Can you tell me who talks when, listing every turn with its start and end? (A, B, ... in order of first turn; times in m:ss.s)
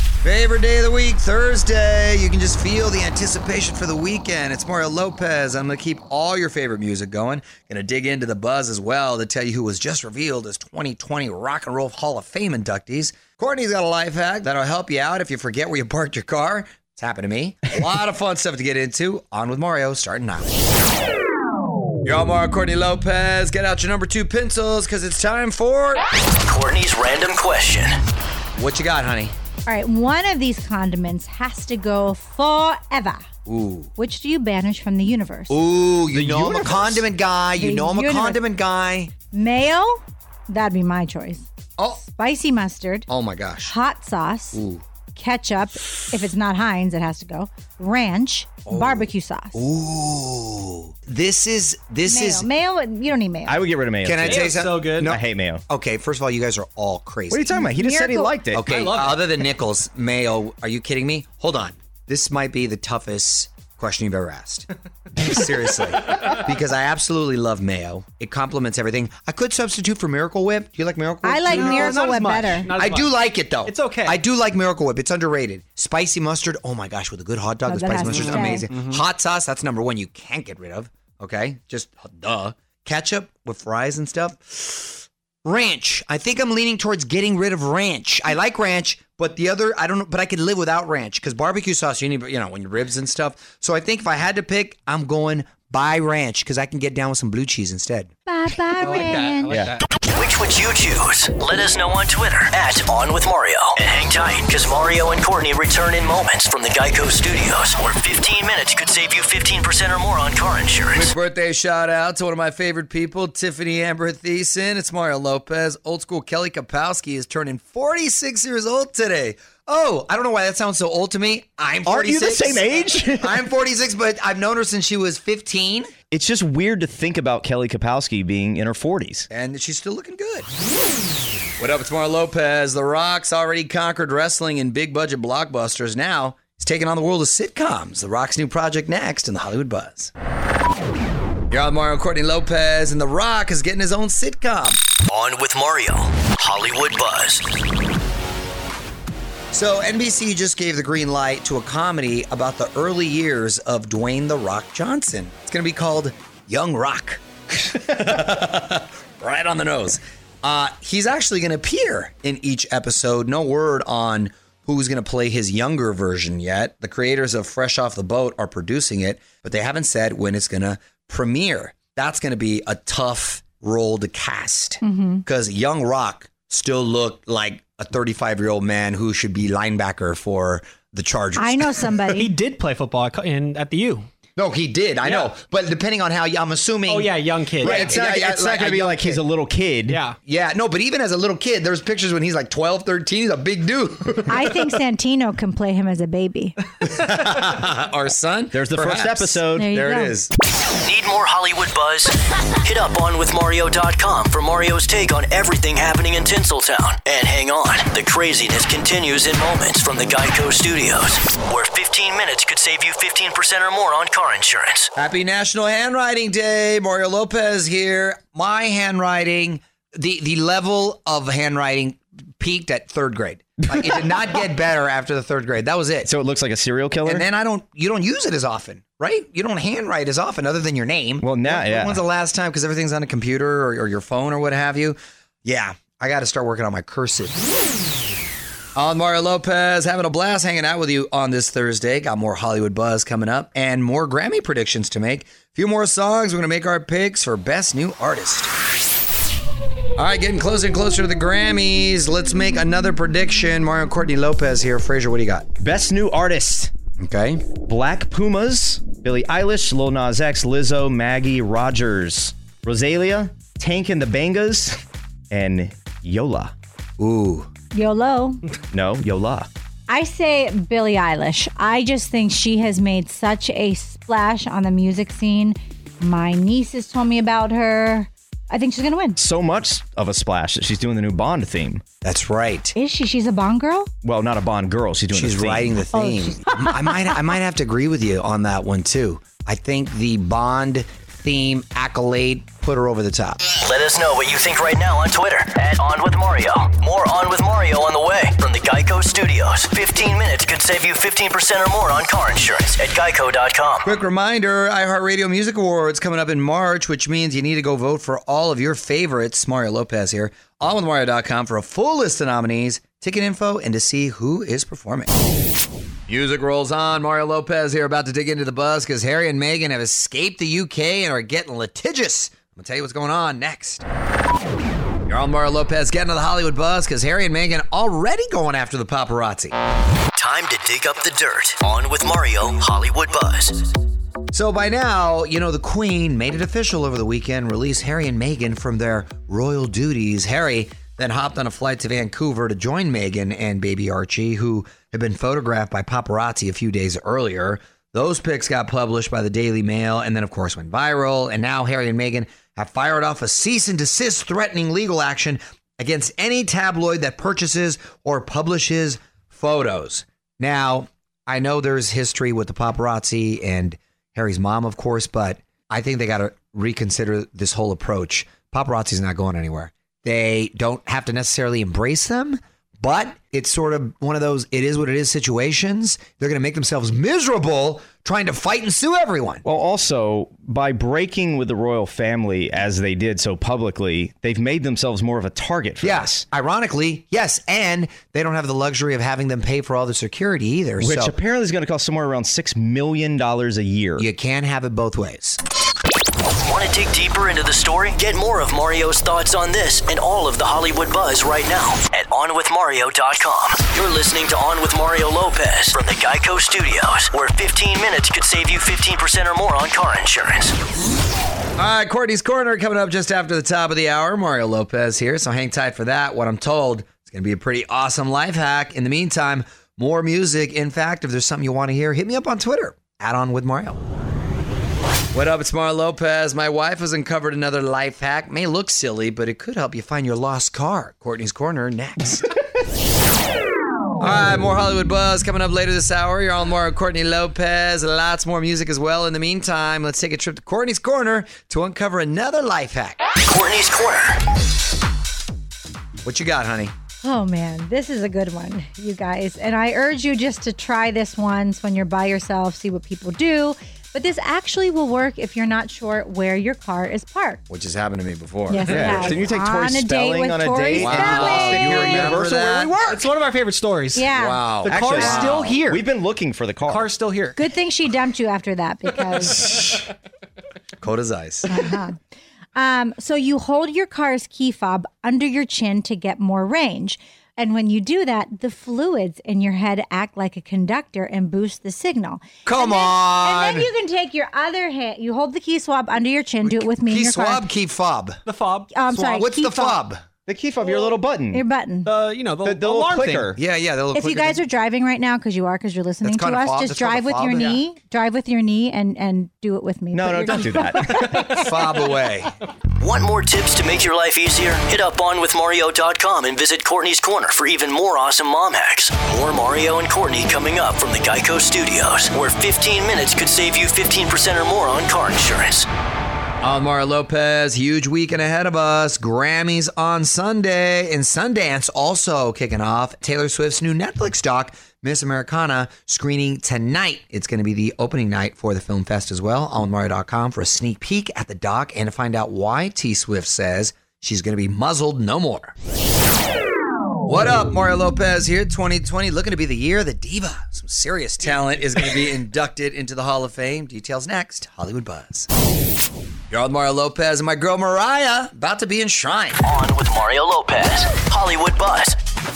0:00.2-0:20.5 A
0:22.0-0:26.0 A
0:26.4-0:28.0 B
0:28.6-0:29.3 A
0:29.6-0:33.2 C
0:33.5-0:33.9 A
0:34.0-0:35.5 C
0:35.5-0:39.1 A
0:36.1-0:37.0 D
0:37.5-0:38.4 C
0:39.3-0:43.1 C
0:41.8-0:42.0 A
0:43.1-0:43.7 A
0:43.6-0:44.6 C
0:44.5-0:44.8 A
0:45.2-0:49.6 C
0:48.7-0:52.5 A
0:52.0-0:53.6 C
0:53.5-0:55.6 D
0:54.0-0:57.5 A
0:54.2-0:55.1 E
0:57.3-0:58.6 D
0:57.5-0:58.4 C
0:58.5-1:12.0 A
0:58.6-0:59.2 E
1:11.2-1:12.7 C
1:11.4-1:14.2 E
1:12.7-1:38.1 A
1:17.6-1:18.7 C
1:18.0-1:19.0 E
1:38.3-1:39.6 C
1:38.8-1:39.8 E
1:40.1-1:51.1 B
1:50.9-2:05.9 A
2:01.8-2:03.4 D
2:06.1-2:09.3 D
2:09.3-2:10.5 A
2:11.6-2:20.1 A
2:21.5-2:24.8 A
2:25.1-2:27.4 B
2:29.5-3:02.2 A
2:54.8-2:55.2 C
3:01.4-3:02.2 C
3:02.1-3:04.1 E
3:04.4-3:09.2 A
3:05.0-3:05.3 E
3:06.8-3:08.0 E
3:07.8-3:10.0 D
3:09.9-3:10.2 E
3:10.2-3:14.6 A
3:14.3-3:16.6 C
3:16.8-3:20.3 A
3:18.5-3:19.7 D
3:19.5-3:20.2 C
3:20.8-3:22.1 B
3:22.6-3:34.9 B
3:35.0-3:46.1 A
3:46.0-3:47.2 D
3:47.0-3:57.4 A
3:51.2-3:52.0 D
3:58.8-4:08.5 A
4:10.0-4:15.4 A
4:15.6-4:16.7 D
4:17.0-4:17.4 A
4:17.6-4:24.8 D
4:25.3-4:26.5 D
4:27.0-4:27.5 A
4:27.7-4:28.4 C
4:28.7-4:29.5 D
4:29.9-4:39.2 C
4:39.2-4:41.8 D
4:42.0-4:42.7 A
4:42.7-4:43.9 C
4:44.0-4:45.8 D
4:45.1-4:53.4 A
4:45.9-4:47.0 C
4:53.5-5:03.9 B
5:03.8-5:15.1 A
5:16.1-5:23.8 A
5:25.1-5:29.5 A
5:30.1-5:33.6 B
5:34.3-6:19.4 A
6:19.4-6:26.2 D
6:25.8-6:31.2 A
6:30.8-6:34.0 D
6:34.0-6:35.4 A
6:36.2-6:50.5 B
6:51.6-7:03.8 A
7:05.1-7:12.3 A
7:14.0-7:23.0 A
7:23.2-7:24.2 B
7:26.0-7:26.7 A
7:27.0-7:37.4 C
7:37.5-7:39.1 A
7:38.5-7:42.1 C
7:38.6-7:39.0 E
7:38.7-7:43.0 D
7:40.7-7:43.0 A
7:42.8-7:45.8 E
7:43.9-7:44.6 C
7:44.1-7:45.6 A
7:44.6-7:46.9 D
7:46.6-7:47.5 E
7:47.4-7:49.8 C
7:50.8-7:51.6 A
7:51.4-7:52.0 C
7:52.6-8:07.5 C
8:02.4-8:03.7 A
8:06.4-8:08.2 A
8:08.2-8:08.7 E
8:08.7-8:09.8 C
8:08.9-8:10.0 A
8:10.2-8:11.4 D
8:11.3-8:11.9 C
8:11.8-8:13.3 E
8:12.4-8:13.4 D
8:13.4-8:14.4 A
8:13.9-8:21.2 C
8:16.0-8:17.6 A
8:19.9-8:21.5 D
8:21.2-8:22.3 A
8:22.8-8:35.6 B
8:36.4-8:55.5 A
8:57.0-9:05.3 A
9:06.3-9:09.4 A
9:09.4-9:11.9 B